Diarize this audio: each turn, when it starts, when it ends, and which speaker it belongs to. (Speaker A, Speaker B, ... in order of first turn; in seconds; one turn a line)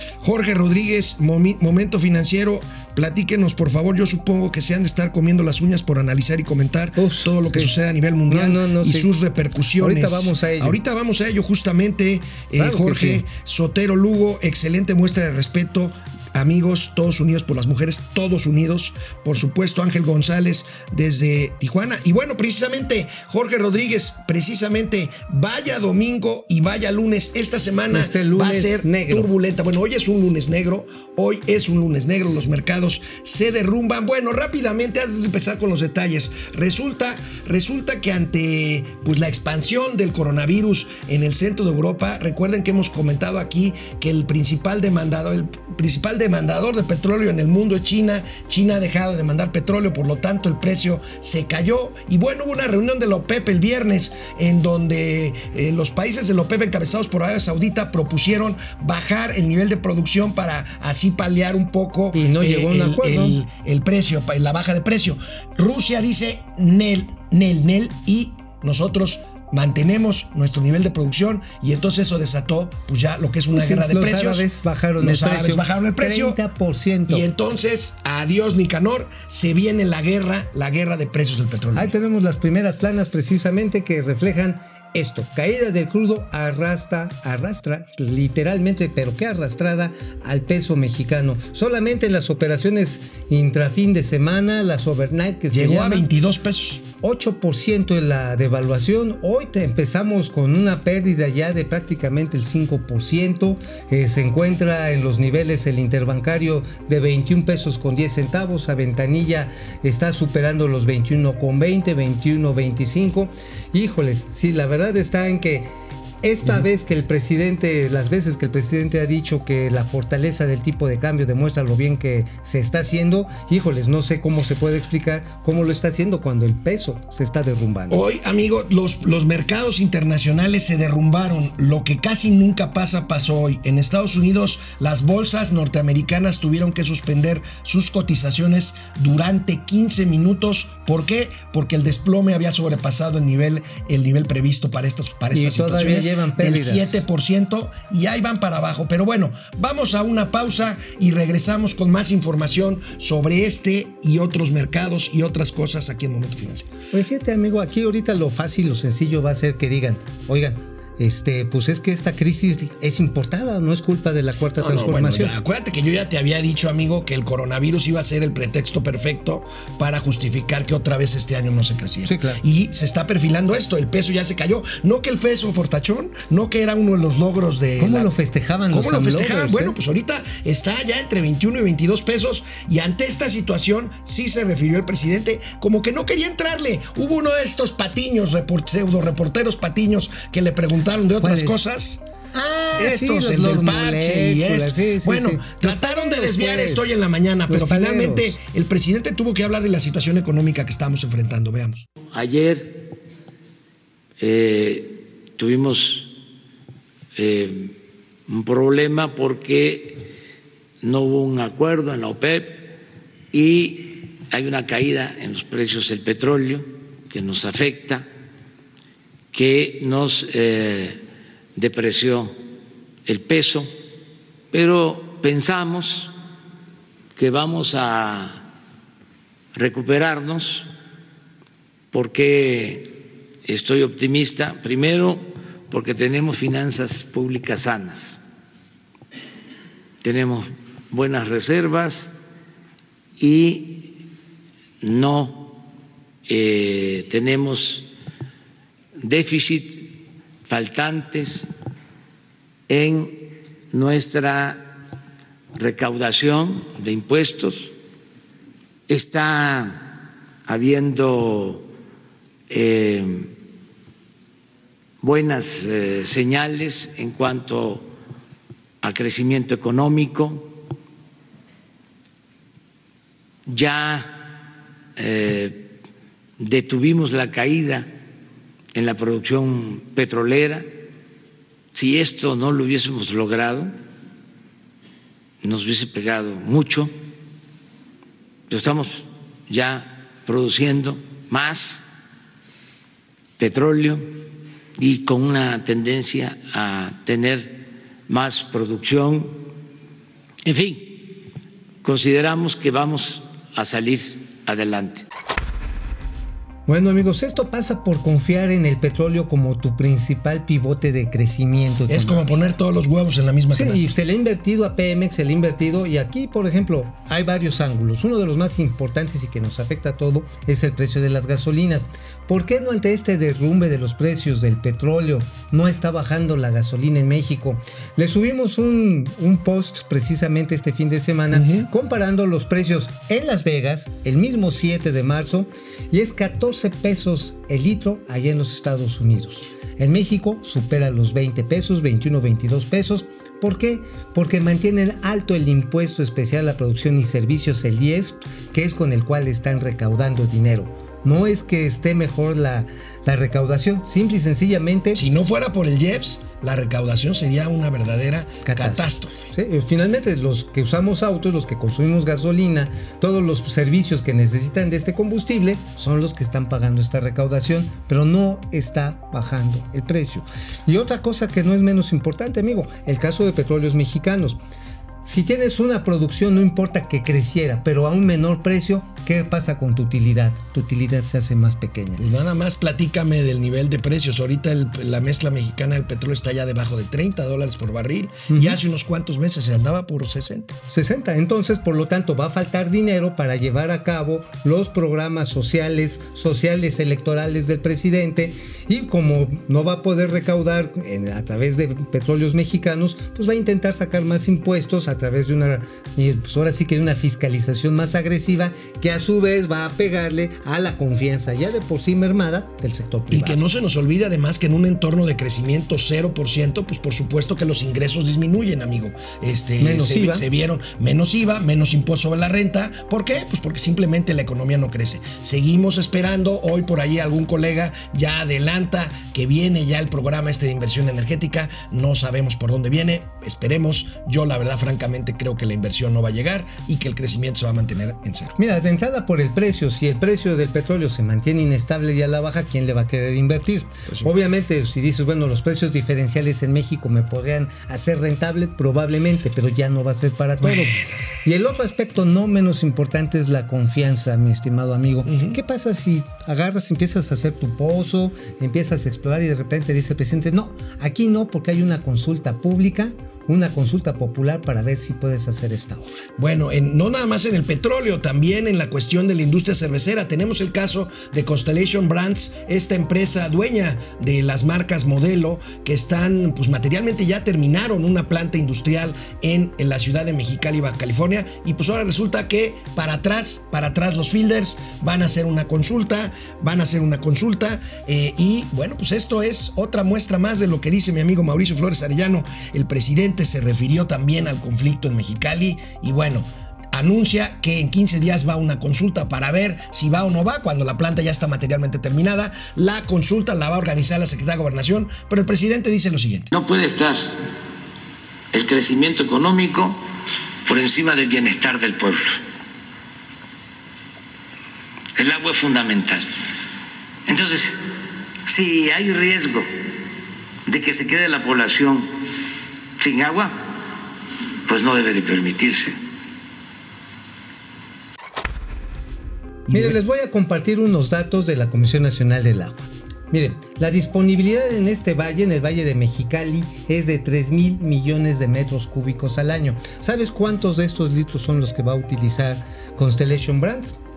Speaker A: 0.2-74.5
Speaker B: 7.0-7.8
Speaker B: 8.3-9.1
Speaker B: 9.8-10.8
Speaker B: 12.6-13.2
Speaker B: 27.9-29.3
Speaker B: 62.1-63.4
Speaker B: 73.5-77.3
Speaker A: 75.0-76.4
Speaker A: 77.1-81.9
Speaker B: 81.8-96.1
Speaker A: 95.5-96.8
Speaker B: 97.0-115.7
Speaker B: 116.2-128.0
Speaker A: 127.9-156.7
Speaker B: 145.3-147.1
Speaker B: 156.9-165.3
Speaker A: 164.6-178.1
Speaker B: 172.1-172.4
Speaker B: 177.8-179.8
Speaker A: 178.7-192.0
Speaker B: 191.2-191.6
Speaker B: 192.3-196.9
Speaker A: 192.8-201.9
Speaker B: 197.5-198.4
Speaker C: 202.1-202.8
Speaker C: 204.2-206.1
Speaker C: 207.2-207.8
Speaker C: 208.3-210.0
Speaker C: 210.8-212.7
Speaker C: 213.3-218.1
Speaker C: 219.3-221.0
Speaker C: 221.6-222.3
Speaker C: 223.1-223.7
Speaker C: 224.5-226.1
Speaker C: 227.2-228.5
Speaker C: 229.5-230.7
Speaker C: 231.9-238.2
Speaker C: 240.0-242.2
Speaker C: 243.2-243.9
Speaker C: 244.8-245.6
Speaker C: 246.3-247.9
Speaker C: 249.0-249.9
Speaker C: 250.4-251.5
Speaker C: 252.7-254.7
Speaker C: 255.6-257.7
Speaker C: 258.9-261.7
Speaker C: 262.5-263.3
Speaker C: 265.0-267.9
Speaker C: 268.8-270.6
Speaker C: 273.5-274.4
Speaker C: 275.0-275.7
Speaker C: 276.4-277.9
Speaker C: 278.7-280.7
Speaker C: 281.7-283.7
Speaker C: 285.4-286.9
Speaker C: 288.5-291.9
Speaker C: 293.4-294.1
Speaker C: 294.8-299.4
Speaker C: 300.4-301.2
Speaker C: 301.8-305.1
Speaker B: 306.7-312.3
Speaker A: 311.9-313.9
Speaker B: 313.5-355.0
Speaker A: 331.3-331.7
Speaker A: 354.9-359.3
Speaker B: 358.4-374.4
Speaker B: 375.0-382.0
Speaker A: 382.0-390.6
Speaker B: 388.3-388.6
Speaker B: 390.7-413.4
Speaker A: 413.1-438.4
Speaker B: 419.6-420.3
Speaker B: 438.4-466.0
Speaker A: 455.1-455.4
Speaker A: 466.2-506.3
Speaker C: 506.3-507.1
Speaker C: 508.3-509.8
Speaker C: 510.5-512.2
Speaker C: 515.0-516.1
Speaker C: 517.1-517.6
Speaker C: 518.3-519.5
Speaker C: 520.5-521.9
Speaker C: 522.8-523.6
Speaker C: 524.5-525.8
Speaker A: 529.5-529.8
Speaker B: 529.5-543.8